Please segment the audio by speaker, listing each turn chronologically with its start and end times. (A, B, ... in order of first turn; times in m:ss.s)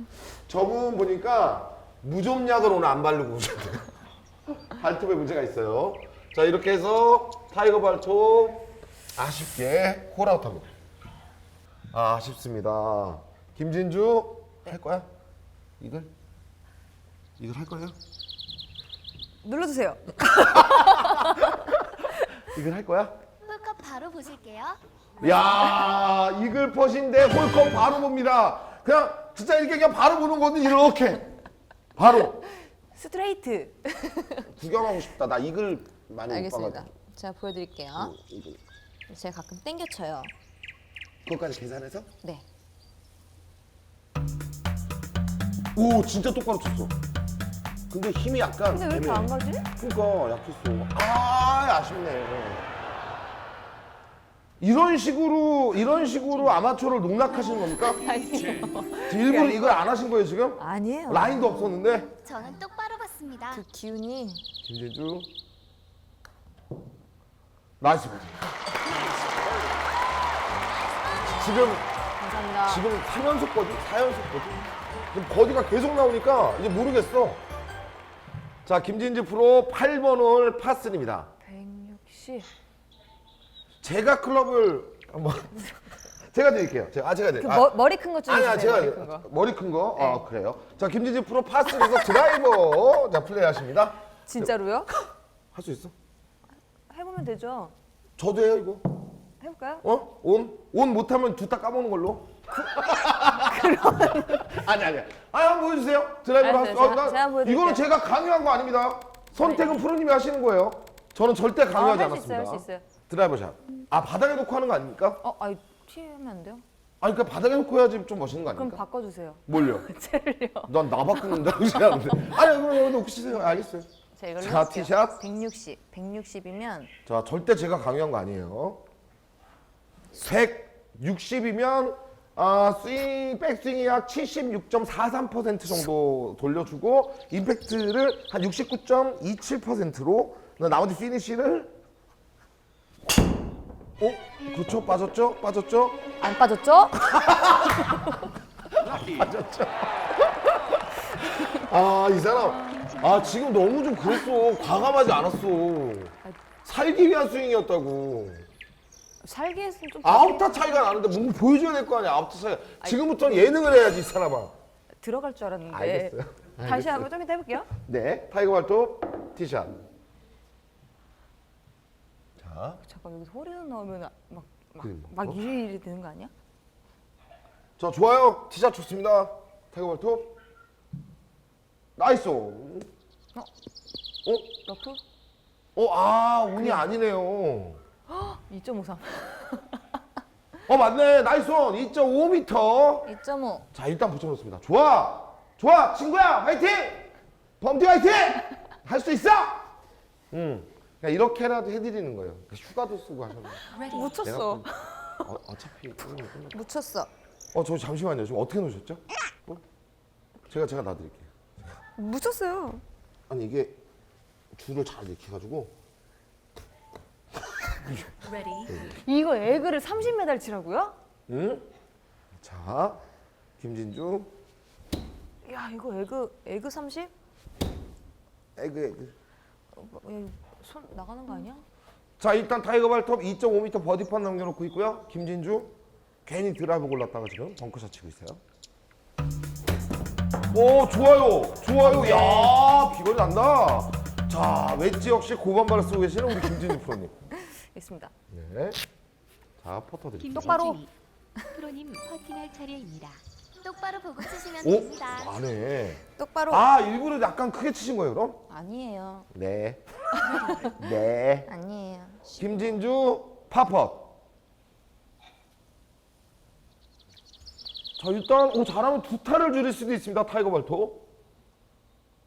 0:00.5-0:03.9 A
0:04.5-0:10.7 A
0:11.9-0:15.1 A
0:15.8-0:16.1 A
0:17.4-0:18.0 A
0:19.4-0:21.6 B
0:20.2-0:23.1 A
0:23.4-0:24.8 C
0:25.2-0:31.3 A
0:32.0-0:32.4 A
0:32.9-0:34.5 B
0:34.6-0:36.9 A
0:36.3-0:38.1 B
0:38.0-0:38.6 A
0:39.1-0:40.3 B
0:41.2-0:42.1 A
0:45.7-0:46.9 A
0:47.9-0:52.6 A
0:48.7-0:49.7 B
0:54.6-0:58.0 A
0:58.0-0:59.9 B
0:59.1-1:02.1 A
1:00.6-1:01.4 B
1:02.2-1:03.6 C
1:03.5-1:04.4 B
1:04.6-1:05.3 A
1:07.8-1:08.5 A
1:11.3-1:11.8 A
1:12.2-1:12.8 B
1:12.6-1:17.4 A
1:18.6-1:21.3 A
1:21.4-1:22.5 B
1:23.8-1:25.6 A
1:26.3-1:35.9 A
1:27.4-1:29.3 B
1:30.0-1:30.2 B
1:34.2-1:34.9 B
1:36.9-1:37.7 B
1:38.2-1:38.9 A
1:39.4-1:39.8 B
1:39.8-1:55.2 A
1:42.5-1:44.5 B
1:46.4-1:47.8 B
1:49.4-1:49.8 B
1:51.7-1:52.8 B
1:55.2-1:56.6 B
1:57.0-1:58.8 A
1:58.5-2:02.2 B
1:59.5-1:59.9 A
2:00.7-2:03.9 A
2:04.2-2:06.9 B
2:04.4-2:05.2 A
2:07.0-2:08.8 A
2:10.1-2:21.7 A
2:24.0-2:26.1 A
2:26.2-2:27.0 B
2:27.0-2:28.1 A
2:28.7-2:38.5 A
2:32.6-2:33.0 B
2:39.2-2:41.0 B
2:40.0-2:44.5 A
2:42.8-2:43.5 B
2:45.0-2:47.7 B
2:45.7-2:47.1 A
2:47.7-2:49.8 A
2:52.4-2:52.8 A
2:52.8-2:56.3 B
2:54.8-2:55.4 A
2:57.8-3:00.4 A
3:02.0-3:02.9 A
3:04.2-3:04.5 A
3:04.6-3:05.0 B
3:05.7-3:07.8 A
3:06.6-3:06.9 B
3:08.1-3:09.8 B
3:10.7-3:13.1 A
3:13.0-3:13.7 B
3:13.7-3:19.7 A
3:20.3-3:23.7 A
3:23.7-3:25.3 B
3:23.7-3:24.2 D
3:24.2-3:24.7 A
3:25.2-3:26.6 A
3:26.5-3:27.1 B
3:27.5-3:29.6 A
3:30.5-3:31.3 A
3:32.0-3:32.8 B
3:33.3-3:33.8 A
3:34.5-3:35.7 A
3:37.8-3:38.1 A
3:38.2-3:38.8 D
3:38.9-3:40.9 B
3:41.3-3:41.7 A
3:42.4-3:43.0 A
3:43.6-3:44.3 A
3:45.4-3:47.1 B
3:48.6-3:49.1 A
3:49.7-3:51.6 B
3:52.2-3:55.7 A
3:56.2-3:58.4 A
4:00.5-4:07.3 A
4:01.8-4:02.6 B
4:07.4-4:08.1 B
4:08.3-4:08.8 A
4:09.6-4:10.7 A
4:10.2-4:10.9 D
4:10.3-4:10.8 B
4:11.4-4:13.2 D
4:13.6-4:15.4 C
4:14.6-4:18.4 A
4:16.2-4:16.6 B
4:18.5-4:19.3 B
4:19.3-4:19.8 A
4:20.3-4:20.7 B
4:20.6-4:21.5 A
4:21.5-4:22.6 B
4:22.4-4:24.1 A
4:28.0-4:31.0 A